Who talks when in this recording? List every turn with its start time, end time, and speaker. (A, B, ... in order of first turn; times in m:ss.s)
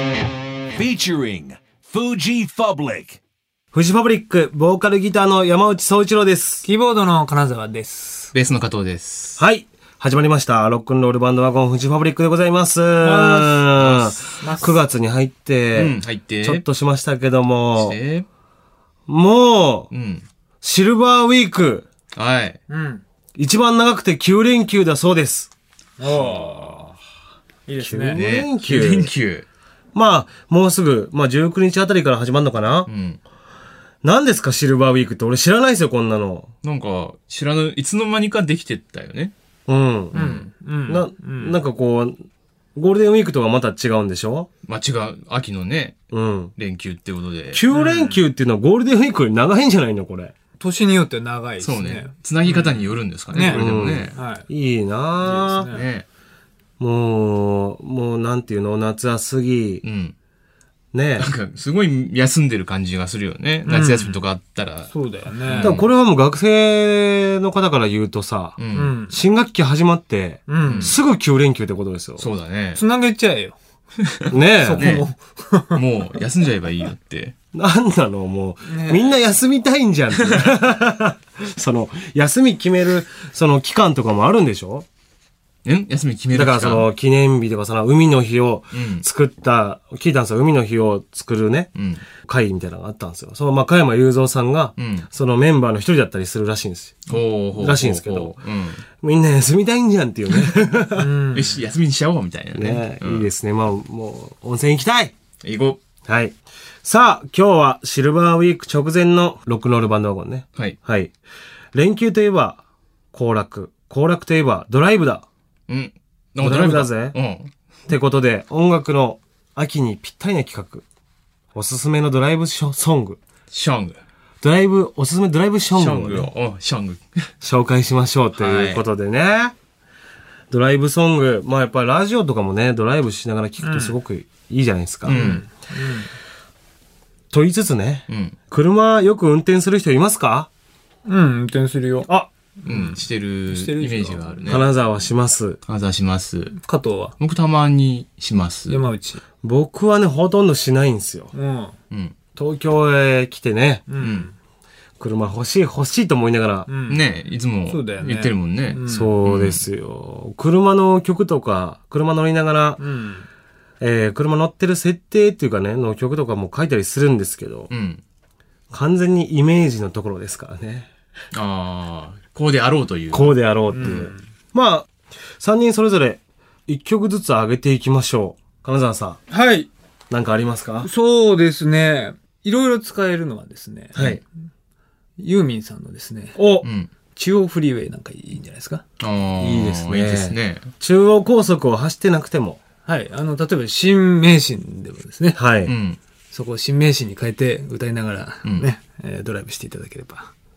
0:00.8-0:03.2 A
0:03.7-0:06.6 B
0:06.6-0:08.3 C
0:08.3-0:09.4 D
0:09.4-0:18.0 B
0:13.0-0:13.6 C
0:13.8-0:14.2 D
0:14.4-0:14.8 C
0:15.7-0:16.6 D
0:17.8-0:18.2 D
0:19.1-0:19.9 B
0:19.9-0:20.2 D
0:20.6-0:21.9 B
0:22.1-0:22.6 D
0:22.7-0:23.0 C
0:23.4-0:25.5 B
0:26.0-0:26.9 C
0:27.7-0:28.2 C
0:27.7-0:29.1 B
0:28.1-0:29.4 D
0:29.9-0:32.9 B
0:32.9-0:33.2 D
0:34.0-0:36.5 B
0:36.6-0:39.3 D
0:39.7-0:40.1 B
0:40.1-0:40.5 D
0:40.1-0:41.6 C
0:40.9-0:42.2 B
0:42.7-0:44.5 B
0:44.6-0:47.6 D
0:46.1-0:46.5 B
0:47.5-0:50.3 B
0:47.7-0:48.2 C
0:50.6-0:54.5 C
0:51.6-0:54.2 D
0:53.5-0:55.7 B
0:55.2-0:55.8 C
0:55.7-0:56.0 D
0:56.8-0:59.8 B
0:59.8-1:00.1 D
1:00.9-1:01.3 B
1:01.2-1:04.9 D
1:03.6-1:04.2 C
1:04.9-1:05.8 C
1:05.5-1:05.9 D
1:05.6-1:12.2 B
1:08.6-1:09.0 D
1:08.7-1:09.1 C
1:10.5-1:10.9 C
1:10.6-1:11.0 D
1:12.2-1:12.8 D
1:12.7-1:13.6 C
1:14.0-1:15.0 D
1:14.3-1:15.0 B
1:14.6-1:15.8 C
1:15.7-1:17.3 D
1:17.5-1:24.8 B
1:18.7-1:19.1 C
1:25.6-1:26.9 D
1:26.3-1:41.1 B
1:28.7-1:29.0 D
1:31.7-1:32.0 D
1:34.8-1:35.1 D
1:37.1-1:38.8 D
1:41.0-1:41.5 C
1:41.3-1:43.3 D
1:42.5-1:45.1 B
1:45.4-1:45.8 D
1:46.0-1:51.1 B
1:51.7-1:52.6 B
1:53.1-1:55.2 B
1:55.7-1:57.5 D
1:56.4-1:57.2 B
1:57.9-2:00.8 B
2:01.5-2:03.2 B
2:03.5-2:04.0 D
2:04.4-2:06.3 B
2:05.8-2:07.3 D
2:07.4-2:09.5 B
2:08.4-2:08.8 D
2:10.5-2:15.3 B
2:13.6-2:14.0 C
2:15.0-2:16.1 C
2:15.1-2:15.4 D
2:17.3-2:20.5 B
2:18.1-2:18.4 D
2:21.0-2:22.1 C
2:22.6-2:24.6 C
2:22.6-2:24.7 D
2:24.4-2:25.6 B
2:25.6-2:26.6 D
2:26.6-2:27.1 C
2:27.2-2:28.8 D
2:28.7-2:29.2 C
2:29.4-2:31.3 B
2:31.3-2:31.7 C
2:31.9-2:32.2 D
2:32.4-2:33.8 B
2:33.9-2:34.3 C
2:34.0-2:34.3 D
2:35.0-2:36.7 B
2:36.7-2:37.0 C
2:36.8-2:39.7 D
2:37.7-2:39.1 C
2:38.9-2:42.8 B
2:42.8-2:43.3 C
2:43.8-2:47.7 B
2:47.7-2:48.0 D
2:48.7-2:50.9 B
2:51.3-2:54.1 D
2:53.1-2:54.9 B
2:53.7-2:54.2 C
2:55.4-2:59.2 B
2:59.3-2:59.7 C
3:00.1-3:00.9 B
3:00.8-3:04.2 C
3:03.9-3:04.2 B
3:05.2-3:06.4 C
3:06.4-3:06.7 B
3:06.6-3:06.9 D
3:07.2-3:08.8 C
3:09.0-3:10.7 D
3:09.4-3:12.6 B
3:12.8-3:15.4 C
3:15.3-3:15.7 B
3:15.6-3:16.0 D
3:16.3-3:20.3 C
3:18.4-3:18.7 D